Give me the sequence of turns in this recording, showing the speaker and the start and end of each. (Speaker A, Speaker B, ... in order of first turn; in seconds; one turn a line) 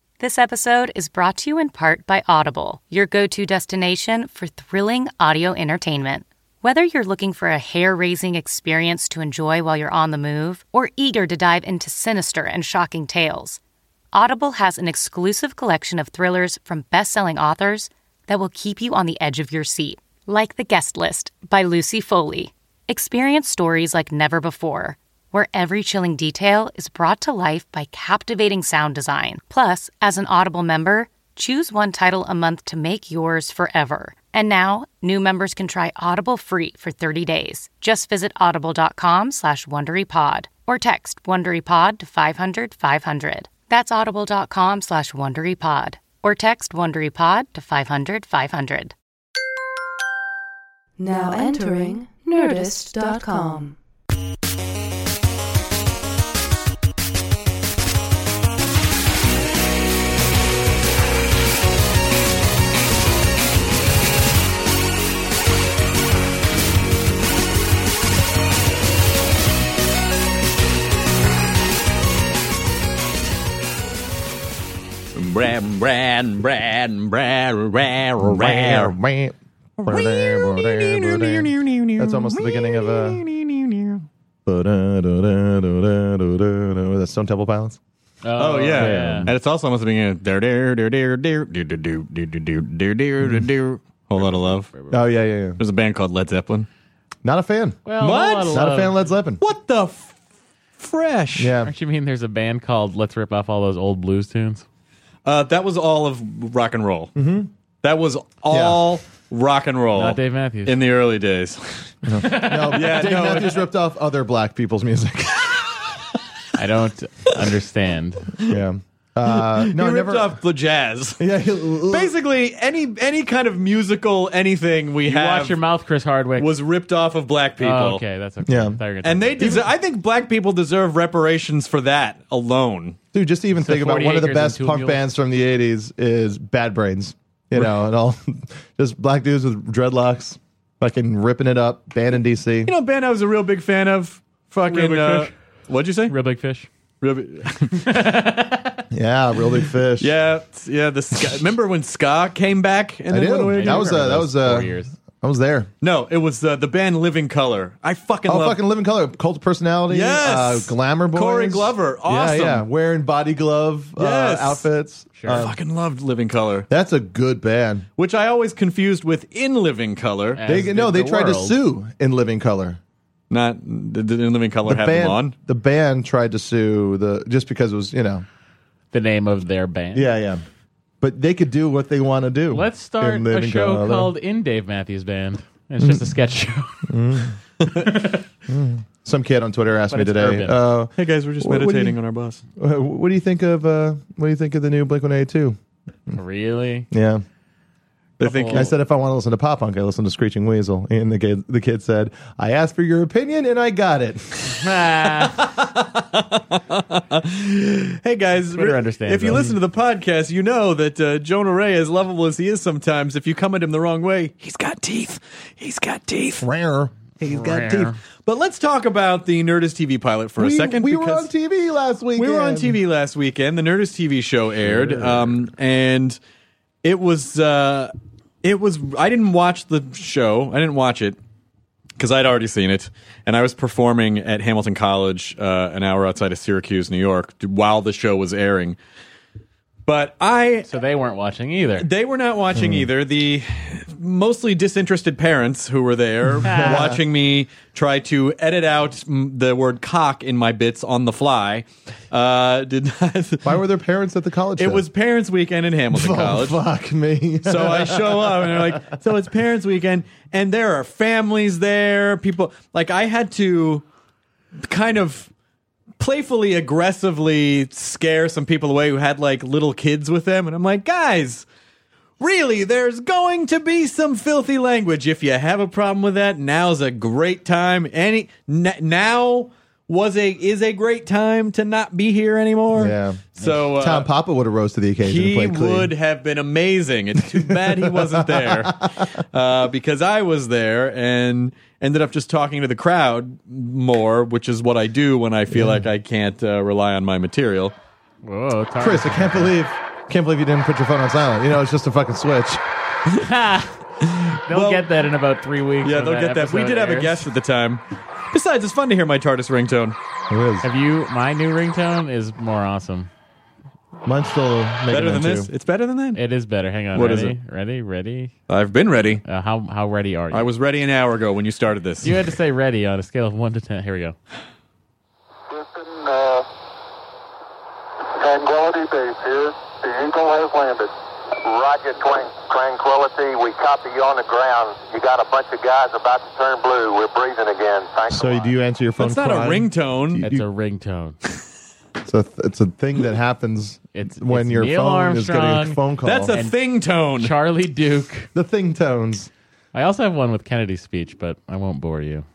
Speaker A: 0.2-13.6
Speaker A: 14.1-48.9
Speaker B: 51.0-53.8
Speaker C: 75.1-78.9
Speaker D: 78.2-83.2
Speaker C: 79.8-84.0
Speaker D: 84.5-87.8
Speaker E: 88.2-89.3
Speaker C: 88.4-94.7
Speaker D: 88.7-89.3
Speaker E: 94.2-95.0
Speaker D: 94.9-95.6
Speaker C: 95.6-96.7
Speaker D: 97.2-97.8
Speaker E: 97.8-99.0
Speaker C: 98.0-98.6
Speaker D: 98.5-99.4
Speaker C: 99.4-100.2
Speaker C: 100.8-101.5
Speaker D: 101.3-101.7
Speaker E: 101.6-104.6
Speaker C: 105.2-107.1
Speaker D: 107.2-107.5
Speaker C: 107.8-113.6
Speaker D: 108.5-108.8
Speaker E: 109.9-110.8
Speaker D: 112.0-115.7
Speaker E: 112.2-113.5
Speaker E: 116.5-118.3
Speaker D: 118.4-120.4
Speaker C: 119.2-121.2
Speaker D: 121.2-122.1
Speaker C: 121.8-125.6
Speaker E: 125.0-126.5
Speaker C: 126.4-128.0
Speaker E: 127.6-129.6
Speaker D: 128.4-128.8
Speaker C: 129.0-133.0
Speaker D: 129.4-129.6
Speaker D: 133.1-142.7
Speaker E: 133.6-135.0
Speaker C: 142.6-146.2
Speaker E: 144.6-145.3
Speaker E: 146.1-146.7
Speaker C: 147.0-148.0
Speaker E: 147.7-148.8
Speaker D: 148.9-150.1
Speaker C: 150.0-154.0
Speaker D: 153.1-155.7
Speaker E: 153.5-154.9
Speaker C: 155.8-158.6
Speaker D: 158.3-165.6
Speaker C: 159.9-162.6
Speaker C: 164.0-164.7
Speaker E: 165.2-165.4
Speaker C: 165.3-166.7
Speaker D: 166.7-167.9
Speaker C: 168.0-170.4
Speaker E: 170.3-171.6
Speaker D: 170.4-172.8
Speaker C: 173.3-175.3
Speaker D: 174.7-178.2
Speaker E: 178.9-180.1
Speaker D: 179.9-180.4
Speaker D: 181.0-184.1
Speaker E: 182.5-186.9
Speaker D: 185.8-186.1
Speaker D: 186.9-187.4
Speaker E: 187.7-188.2
Speaker D: 188.5-192.0
Speaker E: 189.9-190.6
Speaker C: 190.9-192.4
Speaker D: 192.6-195.6
Speaker E: 196.1-196.9
Speaker D: 196.9-197.2
Speaker C: 198.2-198.7
Speaker E: 198.2-198.7
Speaker D: 198.5-204.6
Speaker E: 204.5-205.4
Speaker C: 205.2-216.4
Speaker E: 208.5-209.5
Speaker D: 216.4-217.9
Speaker E: 217.2-217.9
Speaker C: 217.3-221.3
Speaker D: 220.4-222.8
Speaker C: 222.2-226.2
Speaker D: 224.6-225.3
Speaker C: 226.8-227.9
Speaker C: 228.4-231.2
Speaker C: 232.0-238.8
Speaker C: 239.8-240.7
Speaker E: 240.7-241.9
Speaker C: 241.8-253.6
Speaker D: 242.5-242.9
Speaker D: 246.4-247.0
Speaker E: 246.4-246.9
Speaker D: 253.4-254.8
Speaker C: 254.6-256.6
Speaker D: 255.9-258.9
Speaker C: 257.4-263.8
Speaker C: 264.6-265.3
Speaker C: 266.0-271.4
Speaker C: 272.2-284.1
Speaker D: 282.7-285.9
Speaker C: 285.0-297.7
Speaker D: 287.2-289.2
Speaker D: 295.5-295.8
Speaker E: 298.2-299.5
Speaker D: 298.8-302.6
Speaker E: 303.1-303.8
Speaker C: 304.0-304.8
Speaker E: 304.5-307.2
Speaker C: 305.8-310.0
Speaker D: 310.3-310.7
Speaker E: 310.6-313.1
Speaker D: 314.1-315.5
Speaker C: 314.9-316.2
Speaker E: 316.1-318.3
Speaker C: 316.9-317.4
Speaker C: 318.5-319.2
Speaker E: 319.2-320.5
Speaker C: 320.3-322.1
Speaker E: 322.0-324.1
Speaker F: 325.5-326.5
Speaker F: 328.1-338.5
Speaker D: 338.1-340.4
Speaker C: 339.0-340.2
Speaker E: 340.2-341.1
Speaker D: 342.1-346.3
Speaker E: 343.9-346.6
Speaker C: 346.0-347.3
Speaker E: 347.2-348.3
Speaker D: 348.3-349.3
Speaker E: 349.7-352.2